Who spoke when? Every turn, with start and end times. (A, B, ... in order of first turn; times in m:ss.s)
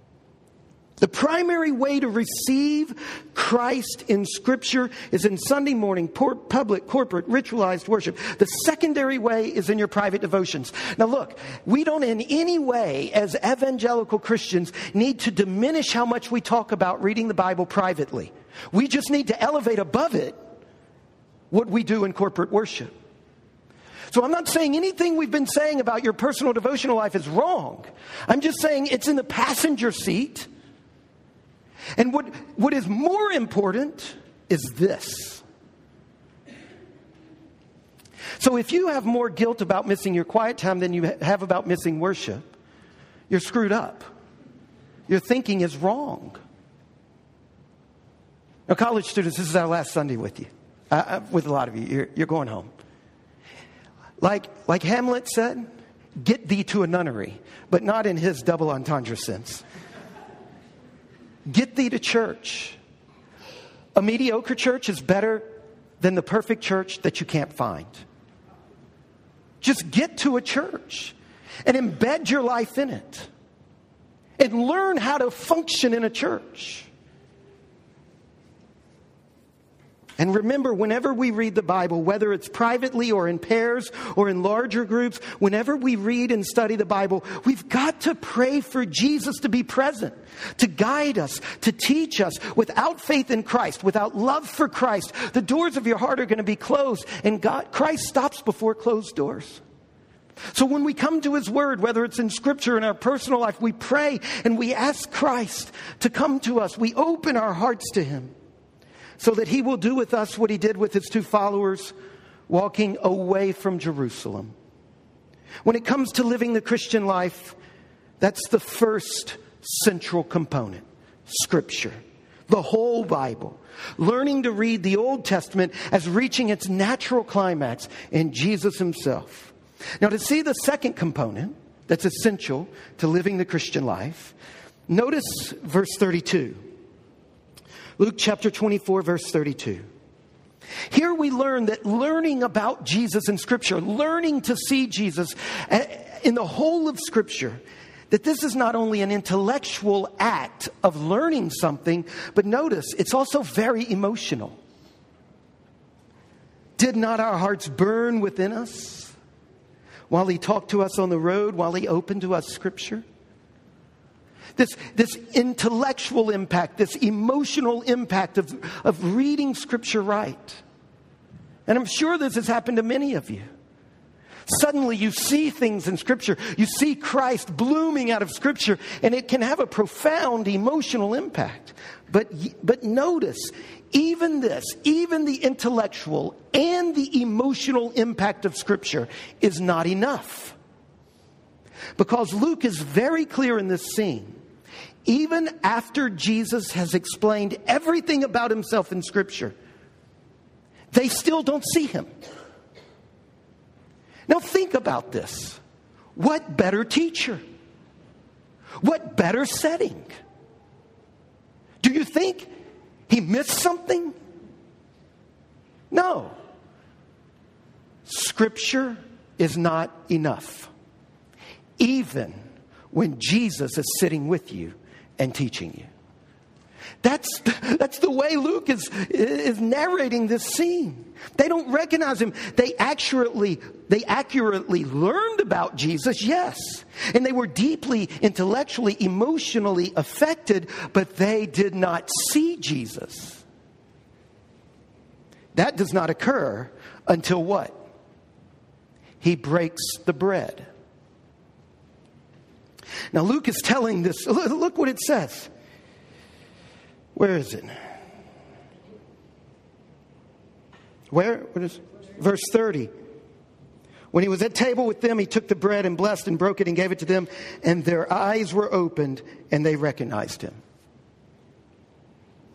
0:01.0-0:20.4 A
0:21.5-0:22.9 A
0:24.1-0:30.5 A
0:32.0-0:35.4 A
0:38.4-0:42.5 A
0:43.3-0:44.1 A
0:45.1-0:46.4 A
0:48.7-0:52.7 A
0:54.2-0:55.6 A
0:56.2-0:59.6 A
1:01.5-1:02.8 A
1:03.9-1:05.4 A
1:06.0-1:08.0 A
1:09.6-1:13.3 A
1:14.4-1:16.9 A
1:20.2-1:39.6 A
1:40.5-1:48.3 A
1:49.2-1:51.9 A
1:52.5-1:54.5 A
1:55.6-1:57.6 A
1:58.2-2:14.3 A
2:14.9-2:16.6 A
2:18.0-2:19.8 A
2:20.9-2:34.6 A
2:36.8-2:39.1 A
2:40.1-2:43.0 A
2:44.6-2:50.6 A
2:51.7-2:53.4 A
2:54.5-3:10.6 A
3:12.0-3:14.4 A
3:15.0-3:19.5 A
3:20.9-3:22.1 A
3:24.3-3:25.6 A
3:26.2-3:27.4 A
3:28.8-3:30.1 A
3:31.8-3:32.5 A
3:33.1-3:34.1 A
3:35.9-3:36.3 A
3:38.0-3:40.7 A
3:41.8-3:42.4 A
3:42.9-3:45.9 A
3:47.0-4:03.4 A
4:05.5-4:07.8 A
4:09.2-4:10.7 A
4:13.1-4:15.5 A
4:17.1-4:17.7 A
4:21.1-4:22.9 A
4:24.1-4:30.6 A